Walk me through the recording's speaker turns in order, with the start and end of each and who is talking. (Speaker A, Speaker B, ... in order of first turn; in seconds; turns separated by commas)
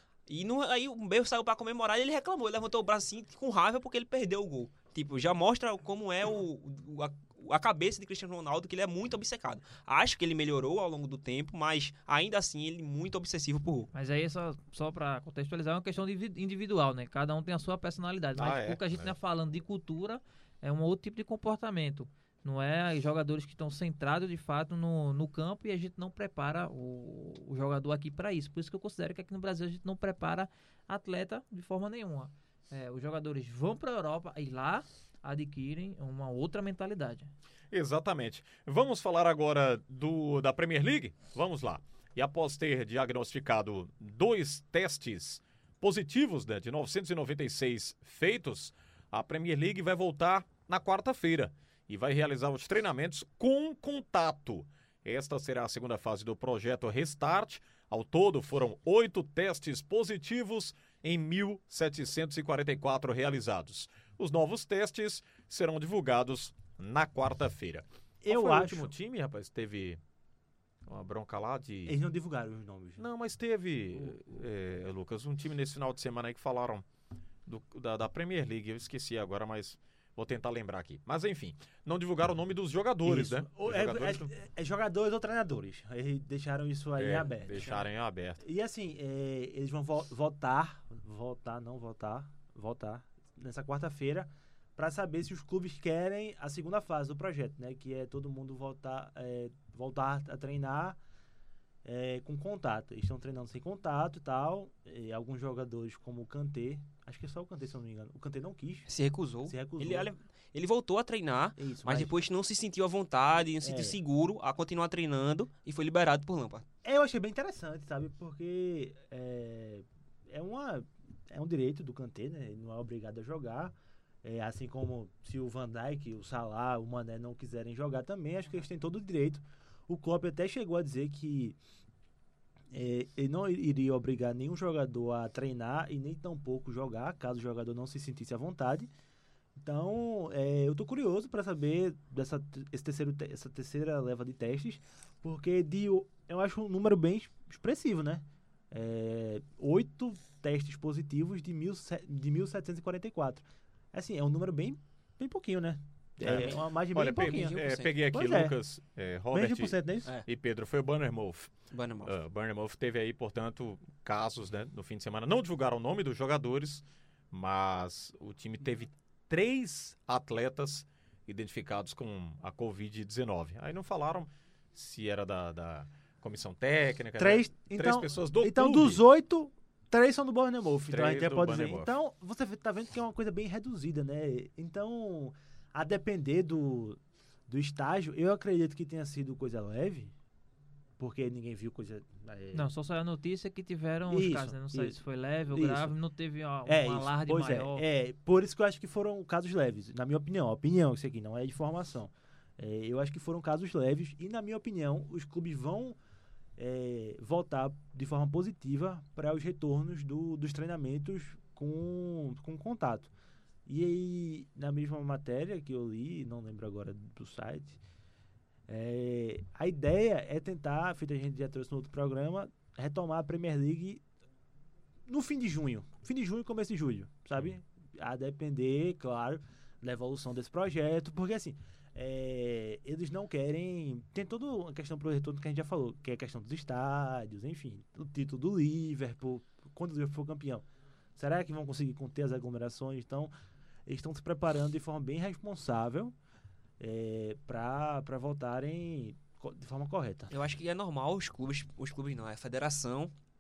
Speaker A: 0.3-13.9, Speaker B: 13.9-37.3, Speaker C: 18.4-19.1, Speaker C: 37.7-70.0, Speaker D: 68.2-68.9, Speaker C: 70.9-72.0, Speaker D: 71.9-73.0, Speaker C: 73.0-76.8, Speaker C: 77.5-84.3, Speaker D: 83.0-87.9, Speaker C: 87.0-88.4, Speaker D: 88.4-101.0, Speaker D: 101.8-108.9, Speaker A: 108.9-116.6, Speaker D: 109.5-110.1, Speaker D: 111.6-112.2, Speaker D: 113.6-114.0, Speaker D: 116.8-131.6, Speaker D: 132.7-138.9, Speaker D: 139.6-157.6, Speaker C: 156.2-161.5, Speaker A: 156.2-156.6, Speaker A: 157.1-157.9, Speaker D: 158.1-158.6, Speaker D: 159.3-160.1, Speaker A: 161.7-162.2, Speaker C: 162.0-179.0, Speaker D: 177.2-190.1, Speaker C: 180.9-181.9, Speaker D: 191.0-192.7, Speaker B: 192.5-197.8, Speaker D: 194.1-195.9, Speaker D: 196.7-206.0, Speaker D: 206.6-213.1, Speaker D: 213.7-217.8, Speaker D: 218.7-224.0, Speaker D: 225.1-240.7, Speaker D: 241.2-243.3, Speaker D: 243.9-246.2, Speaker D: 246.8-250.3, Speaker A: 250.3-253.1